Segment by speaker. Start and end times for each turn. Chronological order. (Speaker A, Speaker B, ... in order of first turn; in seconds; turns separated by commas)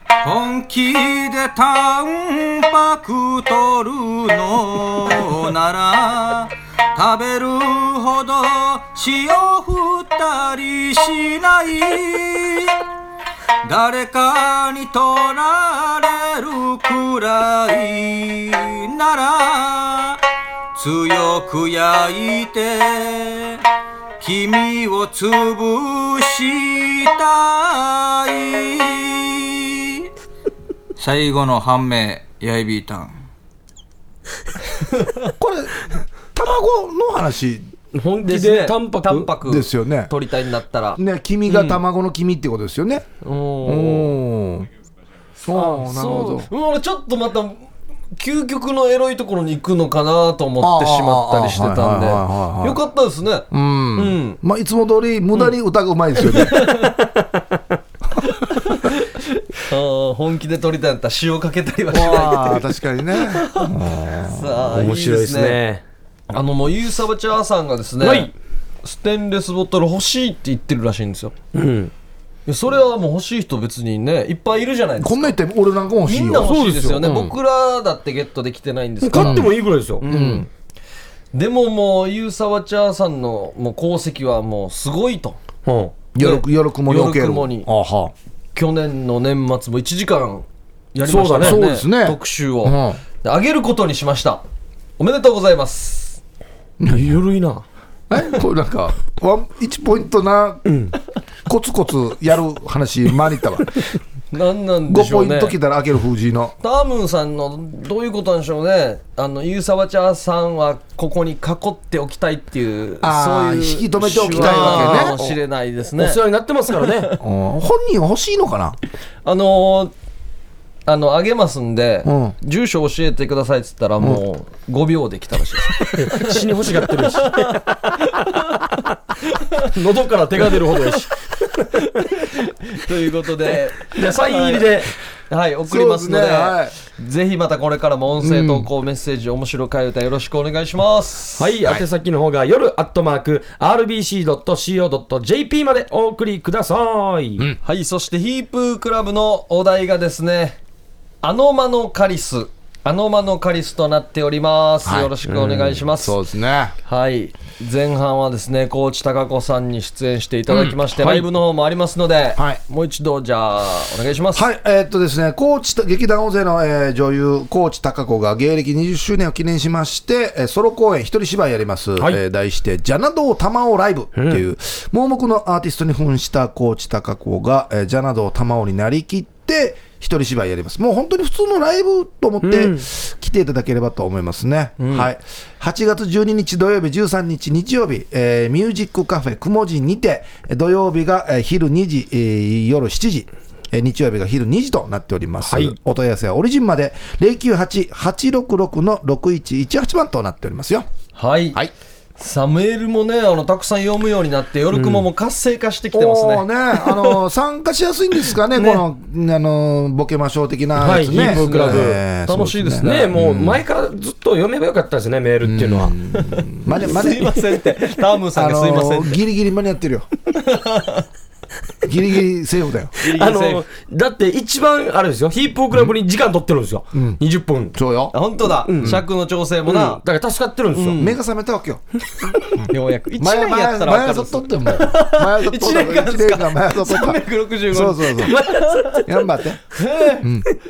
Speaker A: 0.2-12.8, Speaker A: 13.7-20.2, Speaker A: 20.8-23.6, Speaker A: 24.2-30.1, Speaker A: 31.0-33.2, Speaker B: 35.4-37.7, Speaker C: 37.9-39.3, Speaker D: 38.2-41.8, Speaker B: 39.4-40.1, Speaker B: 41.0-43.0, Speaker D: 43.2-44.1, Speaker B: 43.6-44.7, Speaker B: 45.4-46.5, Speaker D: 45.5-54.4, Speaker B: 50.6-52.8, Speaker B: 53.5-56.7, Speaker D: 56.2-57.0, Speaker C: 57.2-57.6, Speaker D: 58.2-65.6, Speaker B: 61.9-64.6, Speaker C: 64.7-65.8, Speaker D: 66.3-68.3, Speaker C: 68.0-68.3, Speaker D: 68.8-71.3, Speaker C: 71.5-71.9, Speaker D: 72.5-75.4, Speaker B: 75.0-77.3, Speaker D: 76.0-79.5, Speaker C: 76.4-77.0, Speaker C: 79.0-80.0, Speaker B: 79.1-79.5, Speaker D: 80.0-80.5, Speaker B: 80.0-80.5, Speaker D: 81.3-85.4, Speaker C: 85.7-86.0, Speaker B: 86.1-88.1, Speaker D: 86.2-87.7, Speaker D: 88.5-94.4, Speaker C: 91.0-91.6, Speaker B: 91.4-93.0, Speaker D: 95.0-96.2, Speaker B: 96.8-97.2, Speaker C: 96.9-97.6, Speaker B: 98.1-100.7, Speaker C: 100.7-100.9, Speaker B: 101.5-103.8, Speaker D: 104.3-105.6, Speaker B: 104.9-106.5, Speaker D: 106.6-116.2, Speaker B: 113.0-115.2, Speaker C: 114.2-115.4, Speaker C: 116.0-117.2, Speaker B: 117.2-118.8, Speaker D: 119.2-119.9, Speaker D: 120.9-127.6, Speaker B: 122.0-122.3, Speaker C: 126.0-128.7, Speaker C: 129.6-131.2, Speaker D: 130.4-130.8, Speaker D: 131.8-134.7, Speaker C: 133.9-134.9, Speaker D: 135.3-141.5, Speaker B: 135.7-136.8, Speaker B: 138.2-138.7, Speaker C: 141.4-147.5, Speaker D: 147.6-150.6, Speaker D: 151.2-156.2, Speaker B: 154.8-156.8, Speaker C: 155.4-155.7, Speaker D: 156.8-164.5, Speaker B: 160.5-160.8, Speaker C: 161.0-161.3, Speaker B: 164.3-200.9, Speaker C: 174.2-174.4, Speaker C: 182.4-182.8, Speaker D: 184.8-185.1, Speaker C: 195.4-195.8, Speaker D: 201.2-201.6, Speaker D: 202.2-207.2, Speaker C: 204.7-205.1, Speaker B: 205.9-213.6, Speaker D: 208.5-208.8, Speaker C: 210.8-212.0, Speaker D: 211.1-213.1, Speaker C: 212.8-216.0, Speaker B: 215.4-217.4, Speaker D: 216.1-219.2, Speaker B: 218.3-220.1, Speaker D: 220.3-221.1, Speaker B: 221.8-222.9, Speaker D: 223.0-223.6, Speaker C: 223.0-227.8, Speaker B: 226.9-227.2, Speaker B: 227.7-228.2, Speaker D: 228.1-230.0, Speaker C: 228.7-229.0, Speaker B: 228.7-229.0, Speaker C: 229.7-231.0, Speaker D: 230.7-231.2, Speaker B: 230.9-231.8, Speaker B: 232.6-238.4, Speaker D: 232.7-239.1, Speaker C: 238.3-239.0, Speaker B: 239.1-239.6, Speaker D: 239.7-240.3, Speaker B: 240.2-240.5